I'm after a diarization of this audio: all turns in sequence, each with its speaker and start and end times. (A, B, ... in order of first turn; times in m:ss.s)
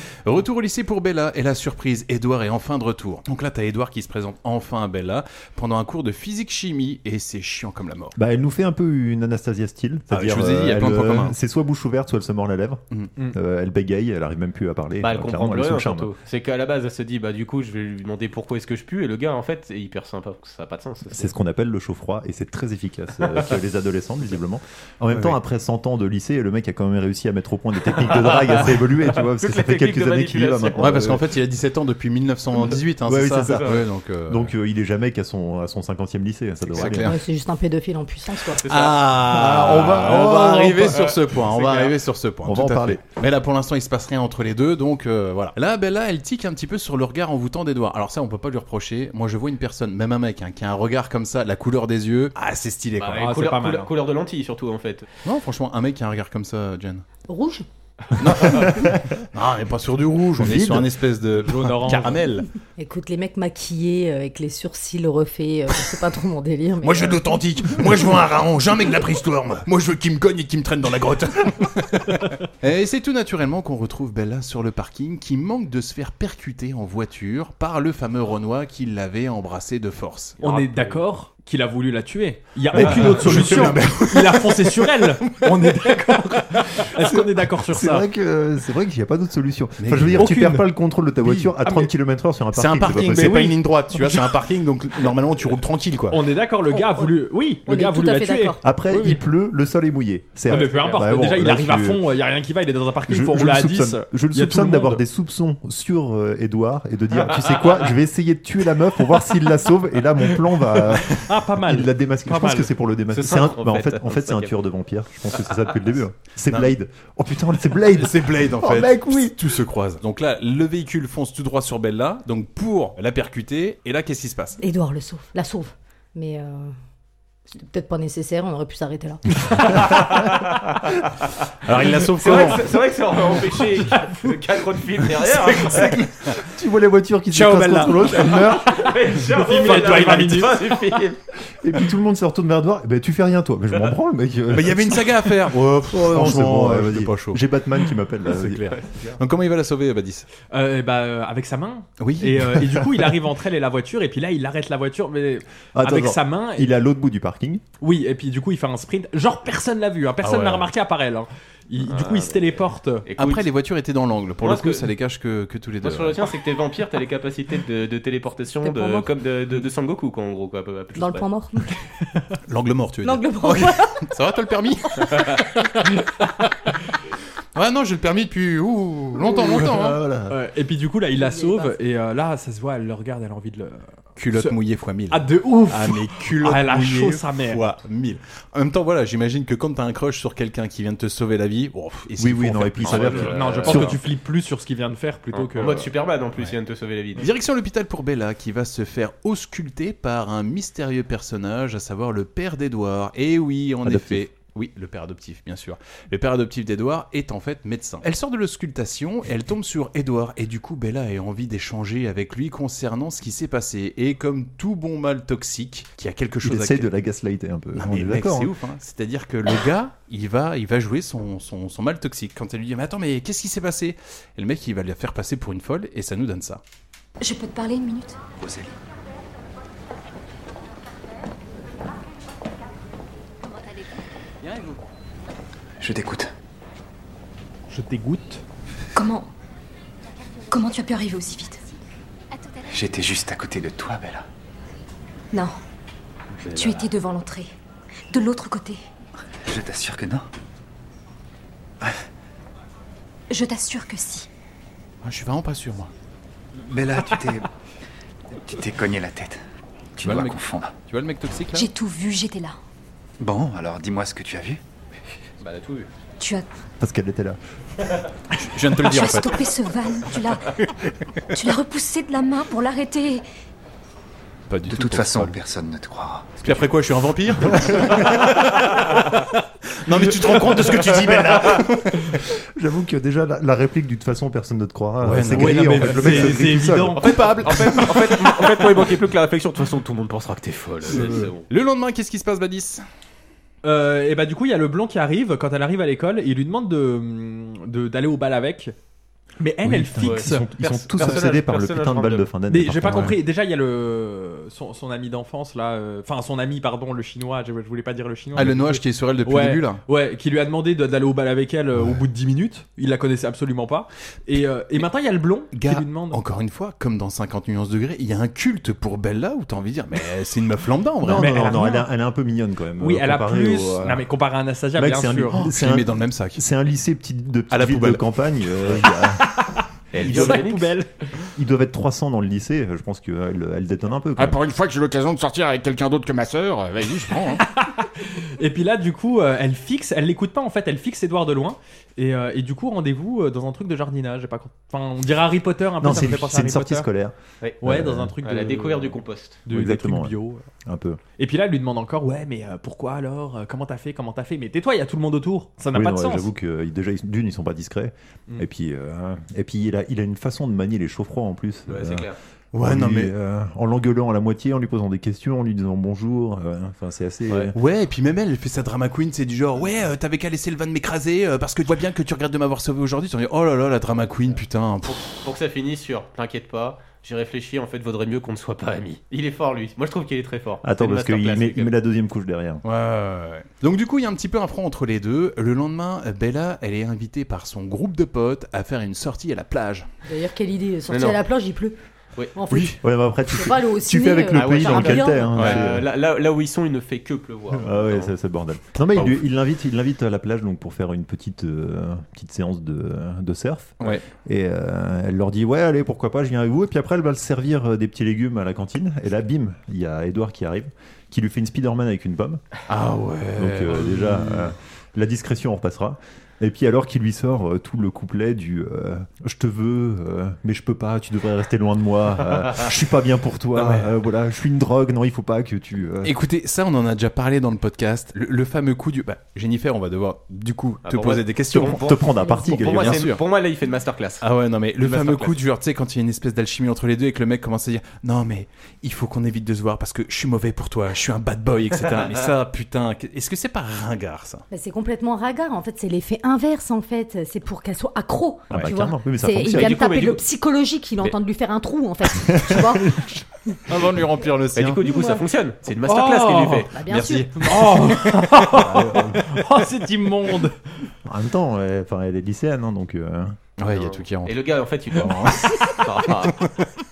0:00.2-0:08.2 A
0:08.2-0:16.1 B
0:10.1-0:11.3 A
0:15.0-0:21.3 C
0:21.1-0:31.2 B
0:27.9-0:31.2 C
0:30.8-0:34.5 A
0:33.0-0:37.2 B
0:33.5-0:33.8 C
0:36.7-0:37.2 A
0:37.0-0:38.6 D
0:38.6-0:41.9 C
0:38.6-0:53.3 A
0:39.3-0:41.0 B
0:42.4-0:43.0 B
0:53.0-0:55.1 C
0:53.1-0:53.9 E
0:55.2-0:57.0 A
0:57.3-0:57.6 D
0:58.2-1:02.5 A
0:58.6-0:59.0 B
1:00.4-1:00.9 B
1:01.4-1:02.2 E
1:02.8-1:07.4 D
1:06.8-1:20.7 A
1:20.4-1:28.1 E
1:22.7-1:25.9 A
1:27.6-1:33.5 B
1:29.8-1:30.3 A
1:30.2-1:31.9 E
1:32.5-1:36.2 A
1:33.2-1:34.4 E
1:36.1-1:39.2 E
1:36.7-1:37.1 D
1:37.6-1:38.6 D
1:38.6-1:42.0 B
1:40.5-1:45.0 E
1:43.1-1:59.3 B
1:47.4-1:47.8 C
1:50.8-1:52.7 E
1:53.1-1:54.5 C
1:57.9-2:04.6 A
2:04.6-2:06.7 D
2:07.5-2:09.8 D
2:11.6-2:12.6 A
2:12.2-2:16.0 C
2:15.8-2:18.9 B
2:17.3-2:18.4 E
2:18.2-2:21.2 C
2:19.3-2:20.7 E
2:21.6-2:25.3 B
2:24.5-2:27.4 A
2:25.9-2:28.6 B
2:28.3-2:30.3 A
2:28.9-2:29.2 C
2:30.5-2:36.7 E
2:32.0-2:32.6 A
2:35.7-2:37.6 B
2:37.8-2:43.0 E
2:40.2-2:40.7 A
2:41.8-2:43.5 C
2:43.2-2:46.2 A
2:44.4-2:44.9 C
2:45.8-2:51.3 C
2:48.6-2:49.1 D
2:51.0-2:51.8 D
2:52.5-2:55.4 A
2:53.0-2:54.1 D
2:57.5-3:00.0 A
2:59.3-3:00.3 B
3:00.3-3:04.6 E
3:01.2-3:01.7 D
3:04.2-3:13.9 A
3:05.1-3:07.6 E
3:12.2-3:14.0 B
3:12.8-3:13.9 C
3:13.2-3:15.9 E
3:15.3-3:17.3 C
3:17.2-3:36.9 A
3:23.8-3:24.2 B
3:36.4-3:38.5 B
3:37.7-3:46.6 A
3:47.2-3:48.2 F
3:48.4-3:48.7 G
3:55.8-3:56.3 G
3:57.7-3:58.4 E
3:58.9-3:59.3 F
4:00.5-4:01.6 F
4:02.7-4:04.2 G
4:05.3-4:05.6 F
4:06.5-4:07.5 F
4:08.1-4:08.8 F
4:09.4-4:10.2 G
4:13.3-4:14.3 F
4:15.0-4:15.9 A
4:16.6-4:17.5 G
4:18.3-4:19.4 G
4:20.0-4:20.8 G
4:20.0-4:21.7 A
4:21.5-4:22.6 F
4:23.2-4:24.6 G
4:25.4-4:25.9 C
4:26.2-4:26.4 F
4:26.8-4:27.4 B
4:28.3-4:29.4 A
4:28.8-4:30.5 F
4:31.3-4:33.2 F
4:34.5-4:35.4 A
4:34.6-4:36.6 G
4:36.4-4:39.1 A
4:39.7-4:42.2 A
4:42.4-4:47.0 B
4:45.0-4:48.4 A
4:45.3-4:47.1 E
4:47.2-4:51.4 C
4:50.9-4:52.8 A
4:50.9-4:51.2 B
4:53.6-4:58.7 E
4:59.4-5:00.5 E
4:59.6-5:03.2 B
5:00.0-5:02.3 C
5:02.5-5:16.2 E
5:08.3-5:09.8 A
5:15.5-5:21.4 A
5:21.0-5:24.1 B
5:21.1-5:21.9 E
5:22.8-5:25.4 E
5:24.7-5:29.2 B
5:25.4-5:26.4 A
5:27.5-5:28.0 A
5:29.3-5:30.9 E
5:29.9-5:30.7 C
5:30.0-5:30.4 B
5:31.4-5:34.4 B
5:34.2-5:37.4 H
5:37.4-5:46.9 E
5:45.8-5:48.1 B
5:47.6-5:50.4 E
5:48.2-5:49.4 C
5:49.5-5:51.0 B
5:51.2-5:56.3 E
5:55.7-6:02.1 B
6:01.7-6:02.2 C
6:02.5-6:03.1 A
6:02.6-6:07.5 B
6:07.5-6:15.0 A
6:14.9-6:21.7 C
6:20.6-6:22.6 B
6:22.6-6:29.9 A
6:30.1-6:31.8 D
6:30.9-6:31.2 C
6:32.3-6:35.5 D
6:32.5-6:35.9 B
6:34.3-6:38.1 C
6:35.4-6:35.6 A
6:37.5-6:52.4 B
6:52.7-6:54.5 A
6:53.4-7:06.1 B
7:03.6-7:03.9 A
7:06.0-7:11.8 A
7:10.8-7:14.2 C
7:11.5-7:13.1 B
7:12.7-7:13.2 A
7:14.2-7:24.4 A
7:14.8-7:15.4 C
7:21.9-7:22.2 C
7:24.5-7:33.6 D
7:28.5-7:29.9 B
7:29.5-7:30.2 C
7:32.3-7:33.1 B
7:33.7-7:34.8 A
7:34.5-7:36.7 C
7:34.8-7:35.2 D
7:35.9-7:36.7 E
7:36.7-7:37.7 D
7:36.8-7:39.2 A
7:37.4-7:40.7 E
7:38.7-7:39.2 B
7:41.0-7:43.4 B
7:43.6-7:46.5 A
7:43.7-7:46.5 C